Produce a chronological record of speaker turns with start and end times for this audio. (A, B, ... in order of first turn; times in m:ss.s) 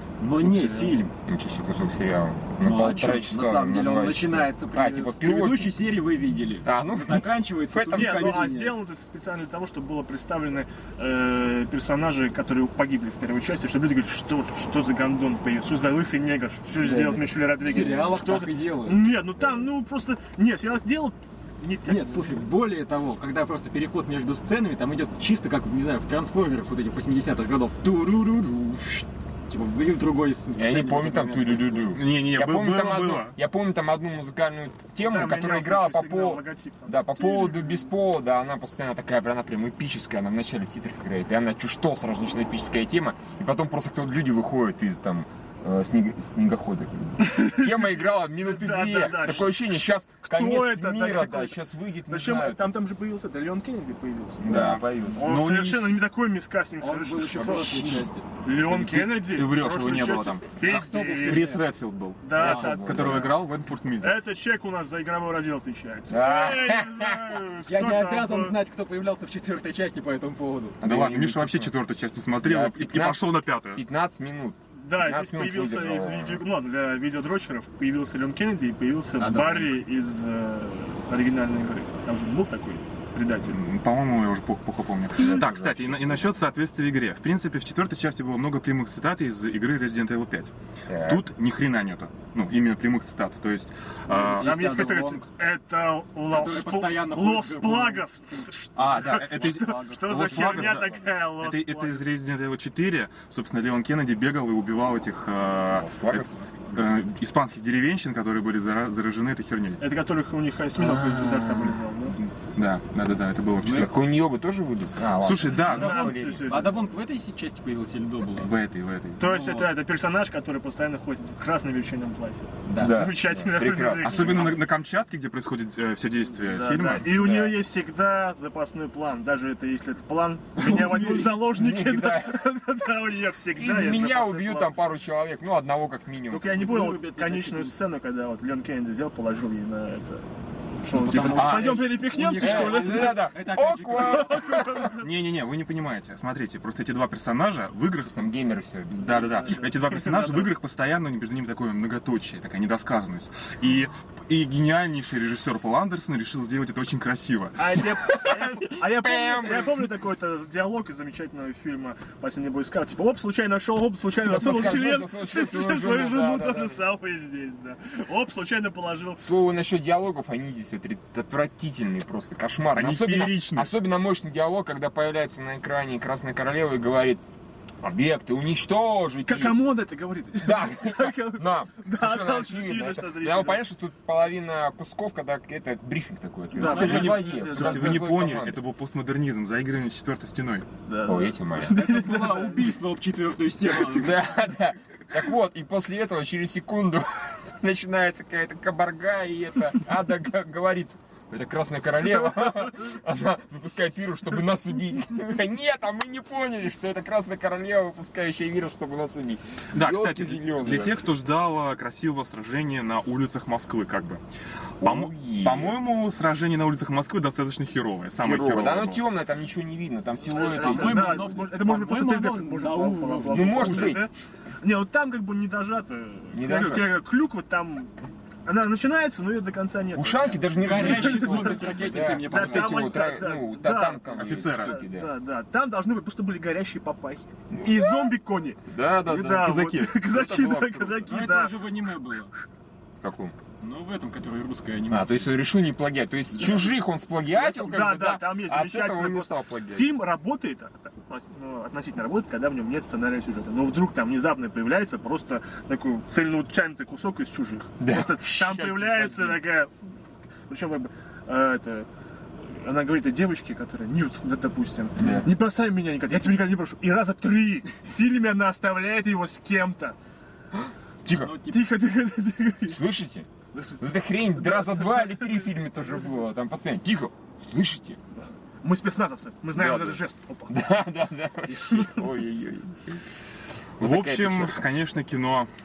0:00.2-0:01.1 A
0:00.4-0:05.8 B
0:00.4-0:00.9 C
0:02.6-0:08.8 A
0:06.6-0:08.5 B
0:07.9-0:22.4 D
0:16.8-0:19.2 A
0:17.7-0:18.2 B
0:21.8-0:32.0 A
0:30.6-0:52.7 B
0:31.9-0:33.3 C
0:35.0-0:37.9 D
0:47.4-0:47.7 D
0:48.4-0:51.6 D
0:52.1-0:57.9 D
0:54.4-0:55.3 B
0:54.5-0:56.0 C
0:56.8-0:58.2 A
0:57.3-0:58.1 B
0:58.4-1:01.5 D
0:58.7-1:04.2 C
1:00.6-1:01.6 A
1:02.2-1:03.2 D
1:02.3-1:03.4 B
1:04.0-1:08.6 D
1:06.1-1:07.2 B
1:07.7-1:10.8 A
1:10.8-1:11.7 B
1:10.8-1:13.8 C
1:12.4-1:16.4 B
1:14.8-1:23.6 D
1:19.2-1:19.7 A
1:23.4-1:30.5 C
1:25.2-1:26.4 B
1:30.9-1:31.2 B
1:31.0-1:34.5 C
1:34.1-1:35.3 A
1:34.1-1:42.1 D
1:36.3-1:38.1 A
1:38.8-1:49.8 C
1:39.0-1:40.9 A
1:45.6-1:46.4 B
1:46.4-1:47.0 A
1:49.8-1:52.2 D
1:52.2-1:53.9 C
1:53.6-1:53.9 A
1:53.7-1:56.5 B
1:55.2-1:56.1 C
1:55.7-1:56.7 D
1:55.7-1:58.5 A
1:58.4-1:59.2 C
1:59.2-2:04.6 D
1:59.2-1:59.8 A
2:02.6-2:03.1 A
2:02.8-2:04.6 B
2:04.0-2:07.5 C
2:06.4-2:14.7 D
2:10.6-2:11.4 A
2:11.5-2:12.4 B
2:13.5-2:16.5 B
2:16.3-2:20.2 D
2:16.5-2:17.7 A
2:20.8-2:23.2 D
2:20.9-2:24.6 A
2:21.3-2:21.8 C
2:22.4-2:24.9 B
2:24.0-2:25.1 D
2:25.0-2:28.2 C
2:28.0-2:29.3 B
2:28.9-2:37.6 C
2:29.2-2:30.5 D
2:37.6-2:49.3 D
2:38.1-2:39.8 B
2:44.2-2:46.8 B
2:49.2-2:57.2 B
2:52.7-2:53.7 C
2:57.8-2:59.6 B
2:59.2-3:03.6 D
3:00.4-3:08.6 B
3:06.5-3:08.0 D
3:06.6-3:10.7 C
3:10.8-3:12.8 D
3:11.0-3:11.8 B
3:11.7-3:14.3 A
3:13.6-3:31.1 B
3:29.7-3:34.2 C
3:34.8-3:39.0 C
3:34.8-3:35.9 B
3:38.2-3:41.3 B
3:40.3-4:01.6 D
3:40.4-3:44.1 A
3:43.3-3:44.1 B
3:46.3-3:46.9 B
3:49.9-3:55.1 B
3:50.6-3:52.9 A
3:54.1-3:54.8 C
3:58.6-4:01.1 B
4:01.1-4:02.3 A
4:03.0-4:03.4 B
4:03.6-4:05.3 A
4:04.9-4:09.9 B
4:07.3-4:19.7 D
4:17.8-4:19.4 B
4:20.5-4:21.9 D
4:22.4-4:30.0 D
4:25.0-4:25.3 B
4:31.0-4:31.3 B
4:31.2-4:31.7 A
4:31.5-4:32.8 D
4:32.6-4:33.3 B
4:33.8-4:38.0 B
4:34.4-4:35.6 D
4:38.6-4:40.5 D
4:39.5-4:43.0 B
4:41.5-4:42.0 D
4:43.8-4:44.6 B
4:43.8-4:45.5 C